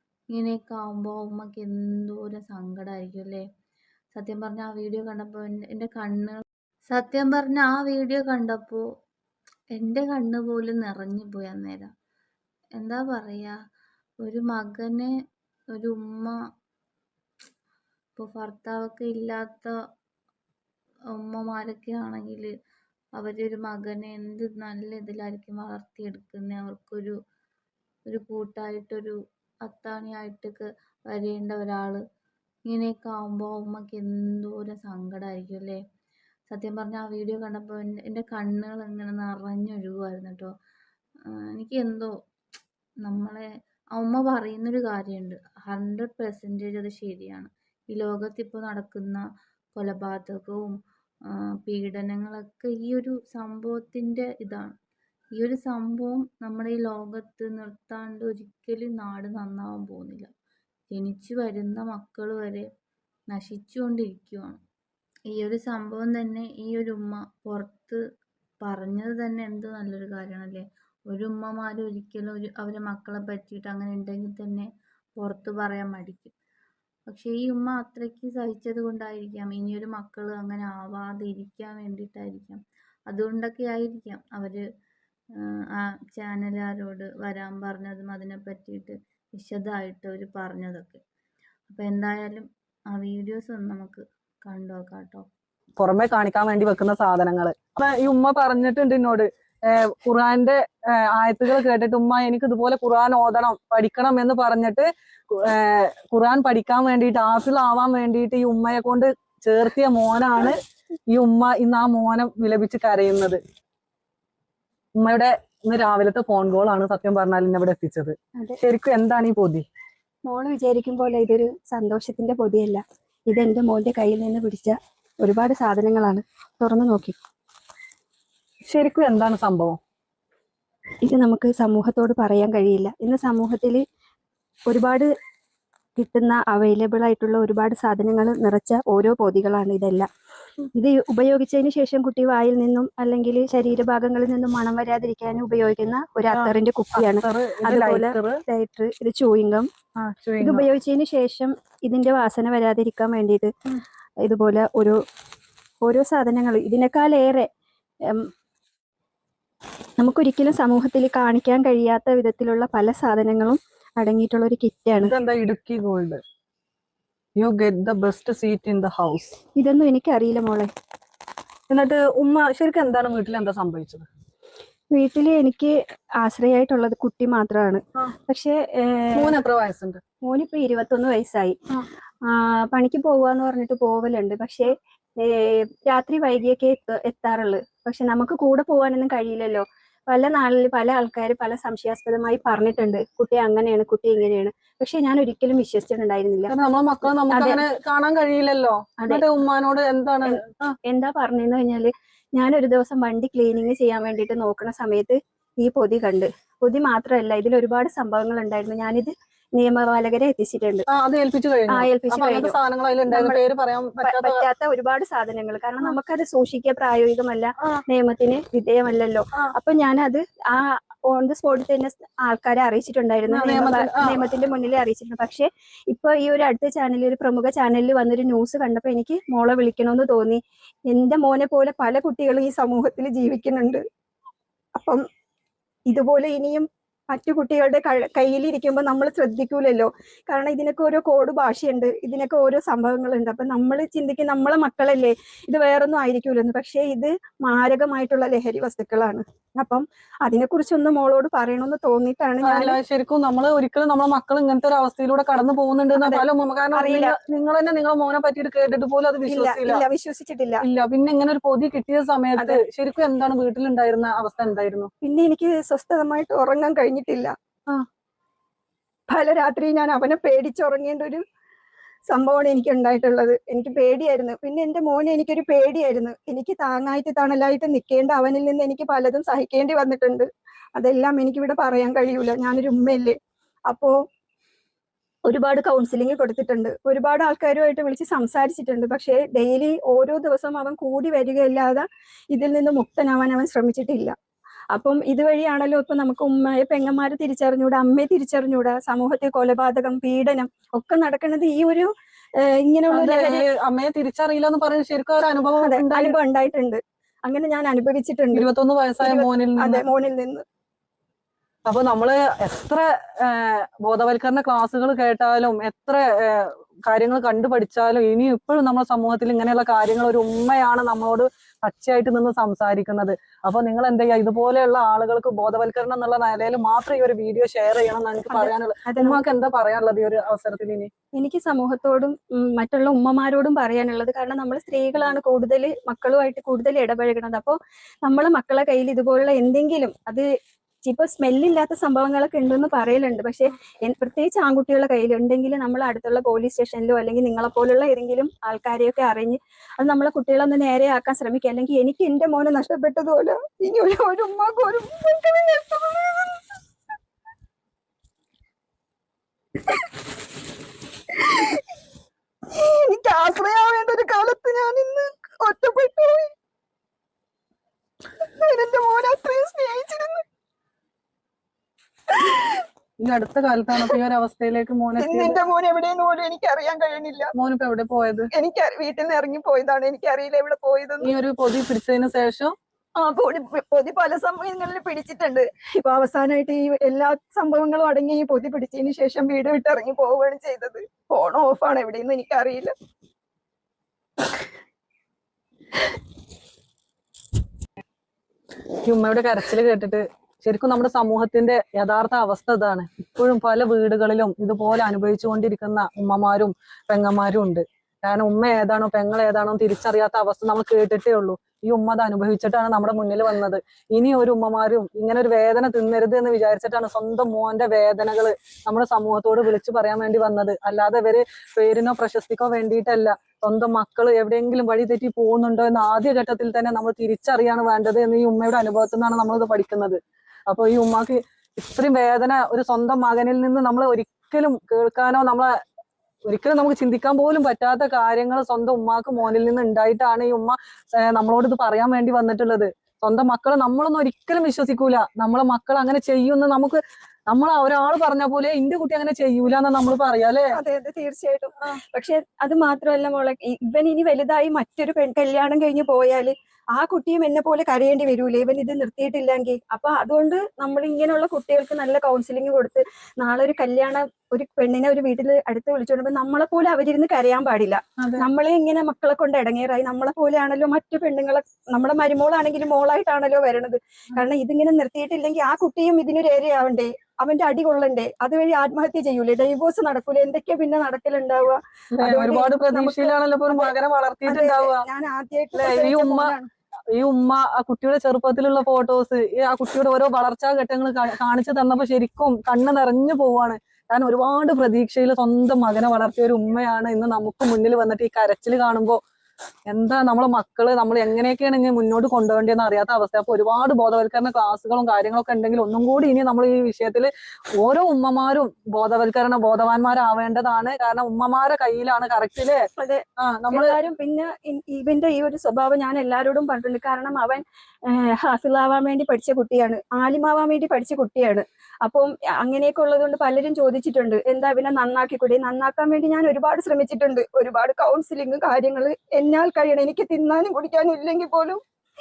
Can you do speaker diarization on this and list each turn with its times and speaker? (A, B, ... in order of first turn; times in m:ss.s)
0:00.3-0:03.4 A
0:04.1-0:08.8 A
0:09.7-0:11.9 A
0:12.8-0:13.5 A
0:14.2-0:15.1 A
0:15.7-0:16.4 A
0:18.2-0:19.7 A
0:21.1-0:22.5 A
0:23.2-0:27.2 A
0:28.1-0:32.0 A
0:32.7-0:35.8 A
0:36.5-0:40.5 A
0:41.3-0:42.1 A
0:43.0-0:49.2 A
0:49.7-0:50.7 A
0:51.3-0:54.7 A
0:55.4-1:00.3 A
1:00.9-1:02.6 A
1:03.3-1:04.6 A
1:05.3-1:08.0 A
1:08.6-1:16.3 A
1:17.1-1:24.6 A
1:25.4-1:31.0 A
1:31.7-1:35.2 A
1:35.8-1:50.6 B
1:51.1-1:53.4 B
1:55.0-1:59.6 B
2:00.3-2:07.2 C
2:08.7-2:09.8 B
2:11.0-2:13.8 C
2:14.7-2:15.1 C
2:16.0-2:20.1 C
2:20.7-2:29.7 C
2:26.3-2:28.4 B
2:30.0-2:30.7 B
2:30.4-2:33.5 C
2:34.2-2:35.0 C
2:35.8-2:37.5 C
2:40.0-2:45.1 C
2:45.0-2:46.2 B
2:47.4-2:49.4 B
2:49.6-2:50.7 C
2:51.7-2:54.0 B
2:54.9-2:59.3 C
2:59.1-3:00.0 B
3:00.2-3:01.6 C
3:02.3-3:16.5 C
3:16.5-3:20.8 B
3:17.3-3:17.6 C
3:20.2-3:30.8 C
3:30.9-3:34.5 B
3:31.7-3:32.6 C
3:33.1-3:33.4 C
3:34.0-3:53.8 C
3:43.3-3:44.2 B
3:54.8-3:55.0 C
3:55.9-4:12.8 C
4:12.4-4:19.8 B
4:16.0-4:17.1 C
4:19.2-4:20.6 C
4:20.6-4:24.9 B
4:25.0-4:27.3 C
4:29.1-4:31.2 C
4:32.1-4:43.2 C
4:43.7-4:44.0 C
4:45.3-4:54.1 C
4:54.7-5:01.9 C
5:02.4-5:03.4 C
5:02.9-5:06.2 B
5:05.6-5:08.5 C
5:08.3-5:09.8 B
5:09.0-5:10.4 C
5:11.6-5:30.9 B
5:28.3-5:29.2 C
5:31.1-5:40.3 C
5:40.8-5:56.4 C
6:01.1-6:01.6 C
6:02.5-6:06.3 C
6:08.2-6:10.2 C
6:12.1-6:12.6 C
6:13.0-6:15.4 B
6:15.0-6:17.3 C
6:17.4-6:18.3 B
6:18.3-6:21.1 C
6:21.0-6:22.5 B
6:23.0-6:32.7 C
6:38.8-7:15.5 B
7:16.3-7:20.5 B
7:21.1-7:30.5 B
7:30.5-8:03.7 C
7:48.0-7:48.2 B
8:02.0-8:04.8 B
8:04.2-8:06.5 C
8:05.5-8:06.3 B
8:07.0-8:19.0 B
8:19.7-8:32.6 B
8:32.8-8:51.6 C
8:33.2-8:33.8 B